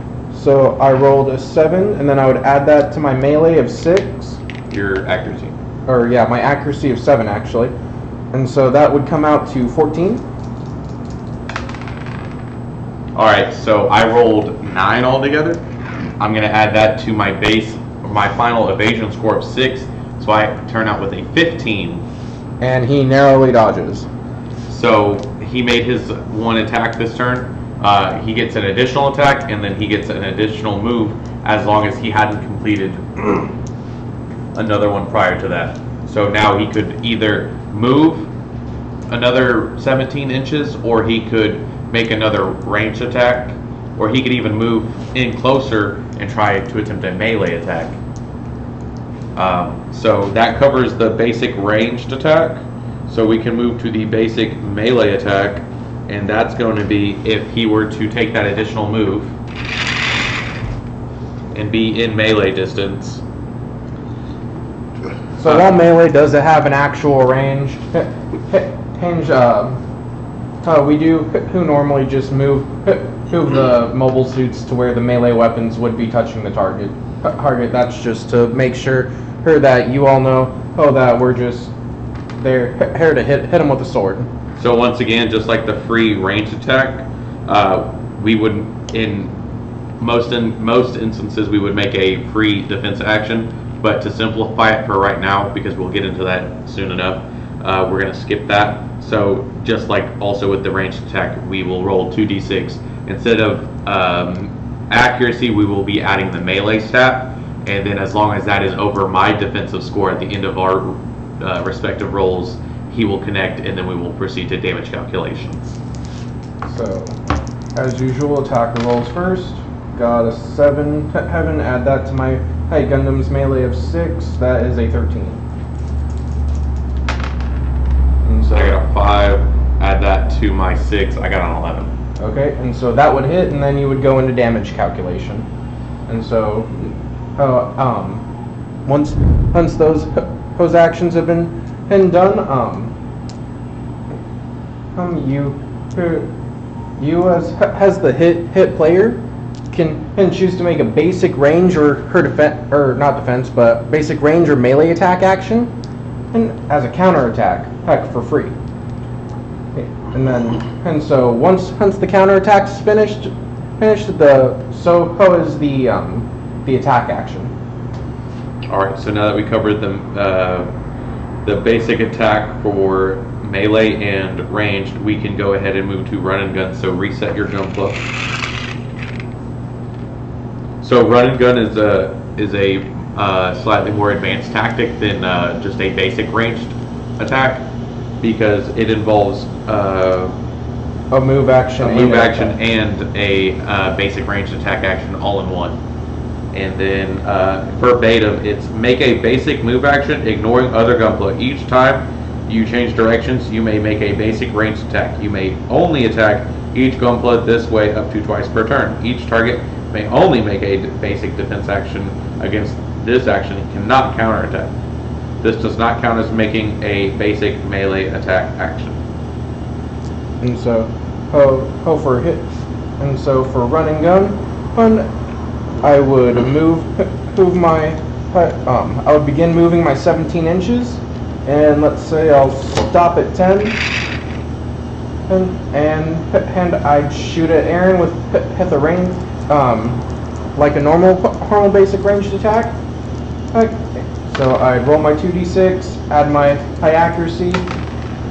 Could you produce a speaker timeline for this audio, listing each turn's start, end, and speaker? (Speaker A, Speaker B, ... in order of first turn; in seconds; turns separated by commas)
Speaker A: 0.3-4.4, Speaker B: 4.7-5.5, Speaker A: 5.9-7.7, Speaker A: 8.3-10.2, Speaker B: 13.2-15.6, Speaker B: 16.2-22.1, Speaker A: 22.6-24.1, Speaker B: 24.7-33.5, Speaker B: 34.5-38.3, Speaker B: 39.1-48.0, Speaker B: 49.4-59.3, Speaker B: 61.5-63.2, Speaker A: 65.4-69.8, Speaker A: 70.6-81.7, Speaker A: 82.4-84.3, Speaker B: 84.6-89.3, Speaker B: 90.0-115.8, Speaker A: 116.6-117.2, Speaker A: 117.8-125.4, Speaker A: 128.2-128.8, Speaker B: 128.5-131.9, Speaker A: 132.2-135.5, Speaker A: 136.1-138.2, Speaker A: 138.9-142.9, Speaker A: 144.9-146.3, Speaker A: 147.0-155.7, Speaker A: 156.3-158.5, Speaker A: 159.7-167.5, Speaker B: 168.7-170.7, Speaker B: 171.4-178.0, Speaker B: 180.8-187.7, Speaker B: 188.2-190.3, Speaker A: 191.1-192.6, Speaker B: 191.8-195.8, Speaker B: 196.5-214.7, Speaker B: 215.4-219.0, Speaker A: 220.4-222.5, Speaker A: 223.0-225.1, Speaker A: 225.8-233.8, Speaker A: 235.3-240.0, Speaker A: 240.6-242.8, Speaker A: 243.5-247.7